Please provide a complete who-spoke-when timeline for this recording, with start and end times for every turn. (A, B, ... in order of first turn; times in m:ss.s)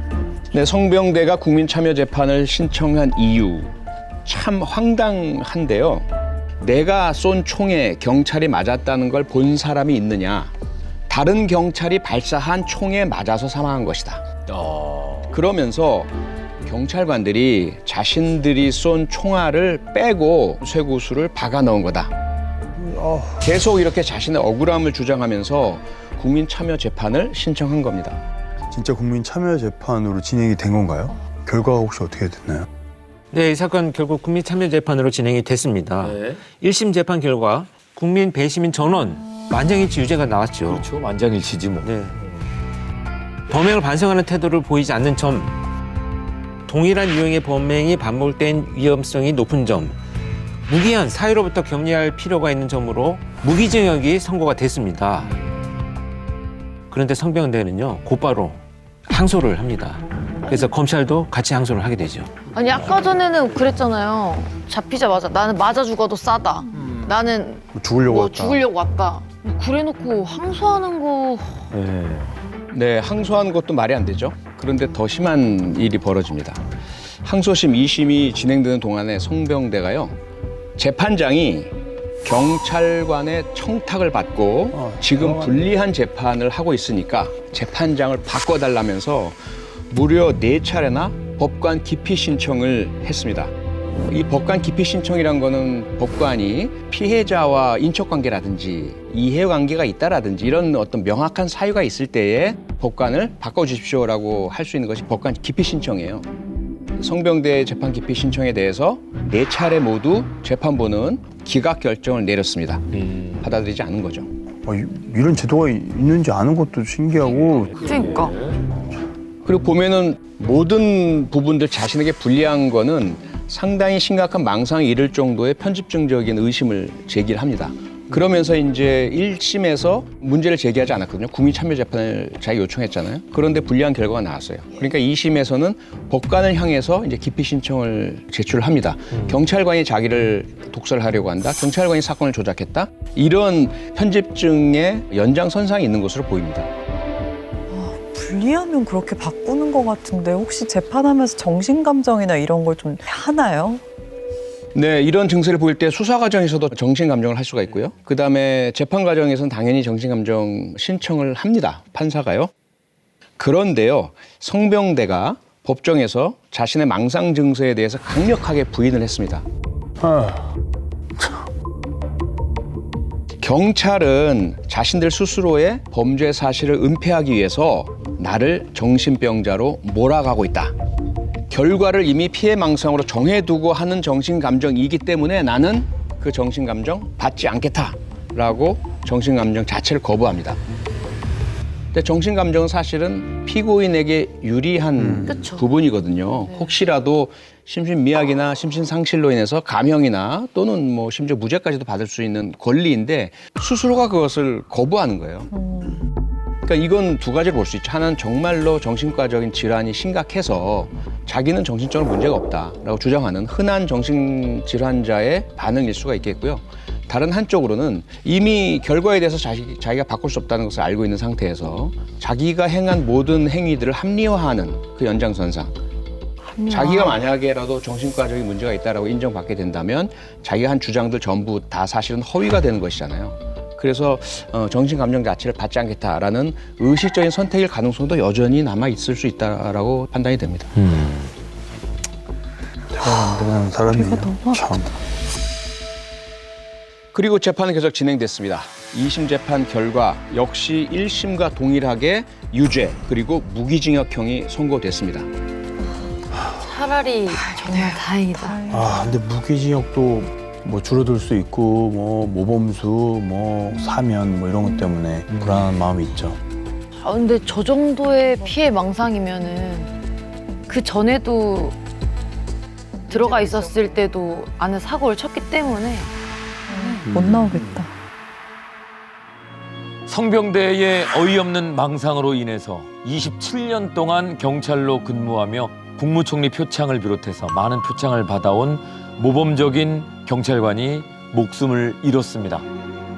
0:00.5-0:03.7 A
0:04.2-0:06.0 A
0:06.6-0:10.5 A
0:11.1-0:14.2 A
0:14.5-0:15.4 B
0:15.3-0:16.1 A
0:16.6-0:22.1 A
0:22.8-0:23.4 C
0:23.4-0:28.2 A
0:28.7-0:32.7 C
0:33.3-0:40.9 D
0:36.0-0:36.4 B
0:40.6-0:41.9 B
0:41.8-0:42.2 D
0:43.5-0:45.5 D
0:46.7-0:50.0 D
0:50.7-0:55.4 D
0:56.9-1:02.3 D
1:02.5-1:11.7 E
1:07.7-1:08.6 C
1:11.7-1:12.3 B
1:12.7-1:16.6 A
1:17.2-1:20.2 A
1:20.8-1:29.4 A
1:24.7-1:25.7 C
1:29.9-1:33.5 A
1:34.0-1:46.3 A
1:47.0-1:54.3 A
1:54.6-1:57.9 C
1:57.9-1:58.4 E
1:59.4-2:26.7 A
2:27.7-2:33.8 F
2:34.7-2:42.5 A
2:43.4-2:49.4 A
2:50.0-2:50.4 C
2:53.4-3:00.7 A
3:01.5-3:10.6 A
3:11.9-3:25.5 A
3:15.0-3:15.4 C
3:15.3-3:15.7 E
3:25.5-3:26.0 F
3:26.6-3:45.7 A
3:46.5-3:47.2 E
3:46.7-4:00.8 A
4:00.9-4:01.3 B
4:02.9-4:04.9 C
4:03.9-4:04.6 F
4:07.1-4:15.3 A
4:16.6-4:18.6 E
4:18.5-4:18.8 F
4:18.7-4:26.4 C
4:27.0-4:29.9 E
4:30.7-4:31.8 E
4:33.1-4:36.1 E
4:36.7-4:37.9 F
4:40.1-4:52.6 B